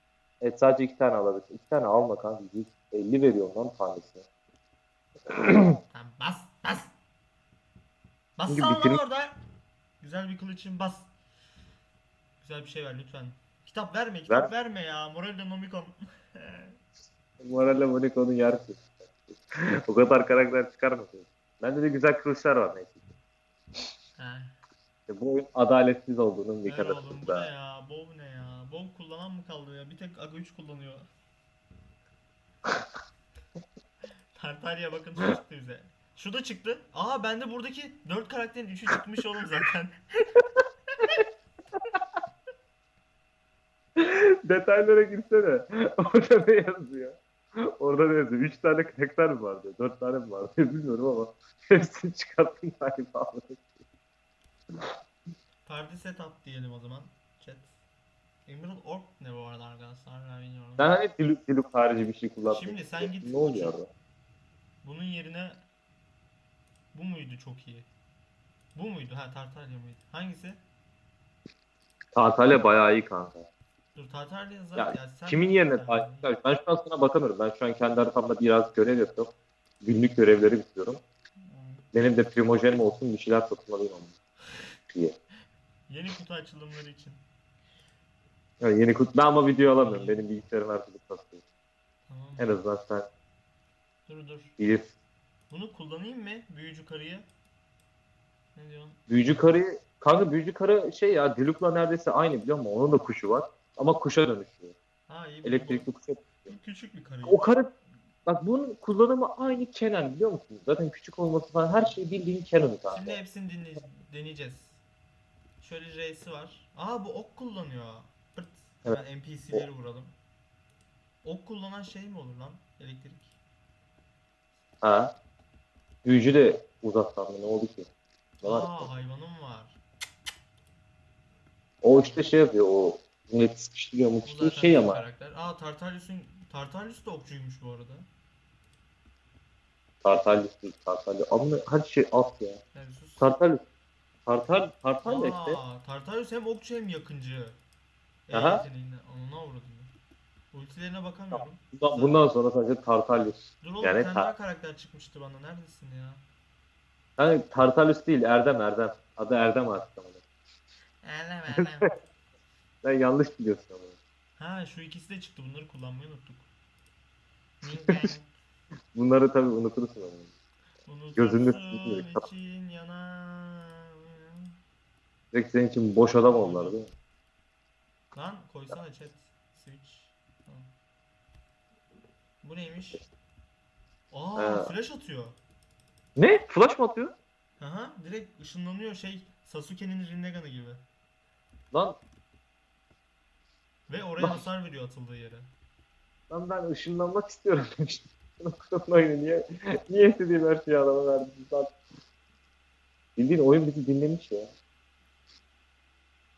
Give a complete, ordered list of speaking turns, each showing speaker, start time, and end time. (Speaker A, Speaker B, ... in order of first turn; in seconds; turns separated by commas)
Speaker A: 0.4-4.2, Speaker A: 5.3-5.8, Speaker B: 5.9-6.9, Speaker B: 8.4-9.3, Speaker A: 8.5-9.0, Speaker B: 10.0-11.1, Speaker B: 12.4-16.7, Speaker A: 17.4-23.0, Speaker B: 24.2-24.6, Speaker A: 25.1-27.5, Speaker B: 26.6-31.1, Speaker B: 34.3-40.0, Speaker A: 44.0-47.2, Speaker A: 47.8-53.6, Speaker B: 55.6-57.7, Speaker B: 58.5-61.0, Speaker A: 60.8-63.9, Speaker B: 62.5-63.8, Speaker B: 64.8-65.6, Speaker B: 66.9-67.9, Speaker B: 68.7-70.6, Speaker A: 72.1-73.5, Speaker B: 73.9-76.3, Speaker A: 74.8-79.3, Speaker A: 79.8-81.0, Speaker B: 81.4-81.8, Speaker A: 81.9-84.2, Speaker A: 84.9-85.1, Speaker B: 85.9-87.2, Speaker A: 88.6-91.4, Speaker B: 89.8-90.3, Speaker B: 92.1-92.6, Speaker A: 92.4-93.1, Speaker B: 94.1-94.6, Speaker A: 94.6-94.9, Speaker B: 95.5-97.3, Speaker B: 98.5-99.4, Speaker A: 99.1-104.7, Speaker B: 105.1-105.9, Speaker A: 105.4-106.5, Speaker B: 106.5-107.5, Speaker A: 107.2-107.7, Speaker A: 108.3-113.2, Speaker B: 112.9-114.8, Speaker B: 115.6-120.1, Speaker B: 121.2-123.3, Speaker A: 124.8-125.1, Speaker A: 126.0-127.9, Speaker A: 128.4-128.9, Speaker B: 128.4-129.8, Speaker A: 131.8-135.0, Speaker B: 131.9-132.3, Speaker B: 134.2-138.1, Speaker A: 140.0-142.6, Speaker B: 142.7-143.3, Speaker A: 143.2-143.6, Speaker A: 144.3-145.6, Speaker B: 145.0-147.6, Speaker B: 148.3-149.9, Speaker A: 148.3-148.6, Speaker B: 150.5-152.2, Speaker A: 151.3-154.3, Speaker B: 153.6-156.2, Speaker A: 157.2-160.2, Speaker B: 161.0-161.9, Speaker A: 162.8-164.0, Speaker B: 164.4-166.5, Speaker B: 167.6-168.3, Speaker A: 168.9-170.3, Speaker B: 170.8-174.5, Speaker A: 171.2-172.2, Speaker A: 175.3-176.9, Speaker B: 176.2-176.8, Speaker B: 178.1-180.7, Speaker B: 182.4-183.0, Speaker B: 184.1-185.4, Speaker A: 184.3-184.7, Speaker A: 186.2-187.1, Speaker B: 187.6-190.8, Speaker A: 191.7-192.0, Speaker B: 193.9-195.5, Speaker A: 194.2-194.4, Speaker A: 196.3-201.7, Speaker A: 203.2-204.5